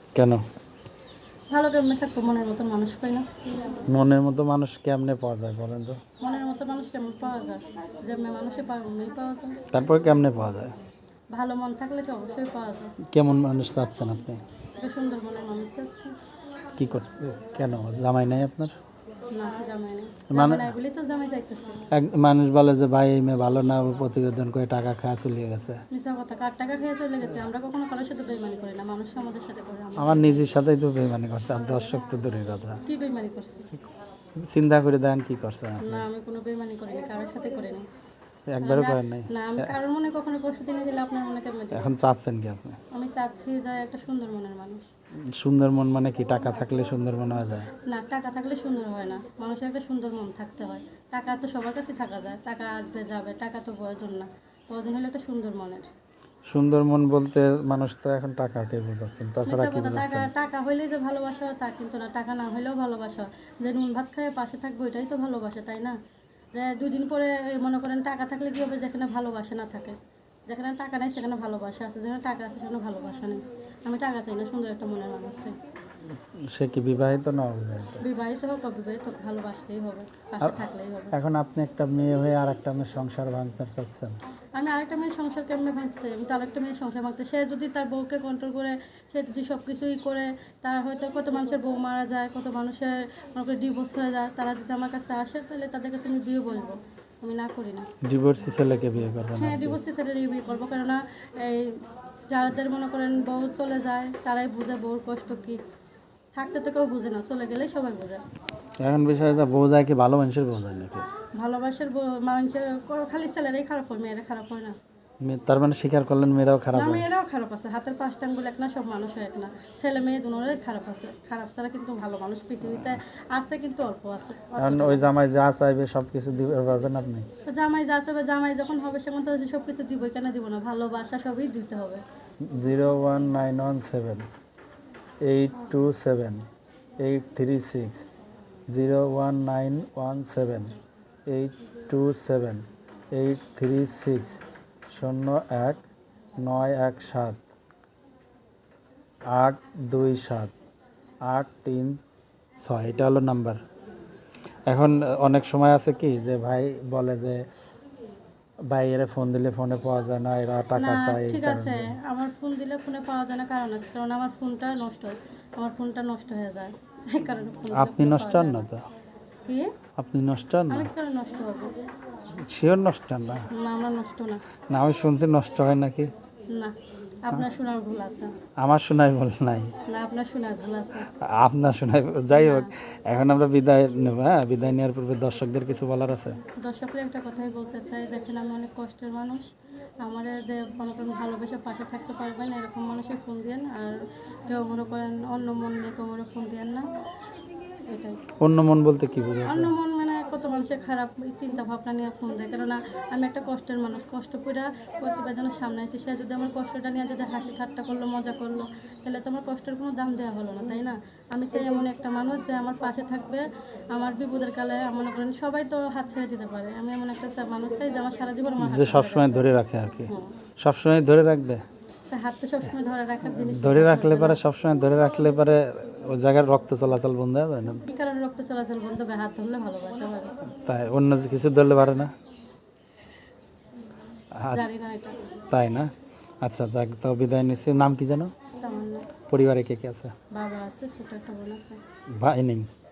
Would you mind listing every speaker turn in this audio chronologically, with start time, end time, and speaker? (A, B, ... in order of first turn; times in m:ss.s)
0:00.1-0:00.4 A
0:01.5-0:03.3 B
0:03.9-0:06.0 A
0:06.2-0:09.6 B
0:09.7-0:10.7 A
0:11.3-0:12.9 B
0:13.0-0:14.4 A
0:14.8-0:16.1 B
0:16.8-0:18.8 A
0:19.3-0:21.8 B
0:20.3-0:20.7 A
0:21.9-0:25.8 A
0:25.9-0:30.4 B
0:30.0-0:32.8 A
0:32.8-0:33.7 B
0:34.4-0:36.0 A
0:35.8-0:37.8 B
0:38.5-0:39.7 A
0:38.6-0:41.9 B
0:41.7-0:42.8 A
0:42.9-0:44.9 B
0:45.2-0:47.7 A
0:47.8-0:55.9 B
0:56.5-1:00.3 A
0:59.4-1:06.0 B
1:06.5-1:15.5 B
1:16.5-1:18.0 A
1:18.0-1:21.2 B
1:20.4-1:24.2 A
1:24.6-1:37.9 B
1:38.0-1:39.8 A
1:39.4-1:45.6 B
1:46.3-1:48.2 B
1:48.8-1:51.1 A
1:51.4-1:54.8 B
1:55.2-1:57.0 A
1:56.7-2:05.0 B
2:04.6-2:07.2 A
2:07.4-2:12.0 B
2:12.4-2:14.2 A
2:15.2-2:16.4 A
2:17.0-2:18.0 A
2:18.7-2:25.8 A
2:26.4-2:27.4 A
2:29.3-2:30.5 A
2:31.2-2:32.0 A
2:32.6-2:33.6 A
2:34.7-2:37.4 A
2:38.7-2:42.0 A
2:40.8-2:48.6 B
2:47.7-2:48.8 A
2:49.4-2:49.7 B
2:50.0-2:50.9 A
2:50.7-2:51.7 B
2:52.3-2:53.5 A
2:53.5-2:54.4 B
2:54.7-2:56.1 A
2:56.5-2:58.4 B
2:58.6-2:59.7 A
2:59.9-3:01.1 B
3:01.1-3:06.4 A
3:02.3-3:02.7 B
3:06.6-3:09.5 B
3:10.0-3:16.9 B
3:17.9-3:18.2 B
3:18.4-3:19.7 A
3:19.5-3:39.5 B
3:38.6-3:41.6 A
3:40.1-3:40.3 B
3:42.1-3:44.4 B
3:43.2-3:47.8 A
3:47.8-3:50.4 B
3:50.5-3:52.1 A
3:54.3-3:54.7 A
3:54.5-3:55.2 B
3:55.5-3:55.9 A
3:56.4-3:58.3 A
3:58.6-3:59.1 B
3:59.3-4:00.1 A
4:00.3-4:01.8 B
4:02.1-4:02.7 A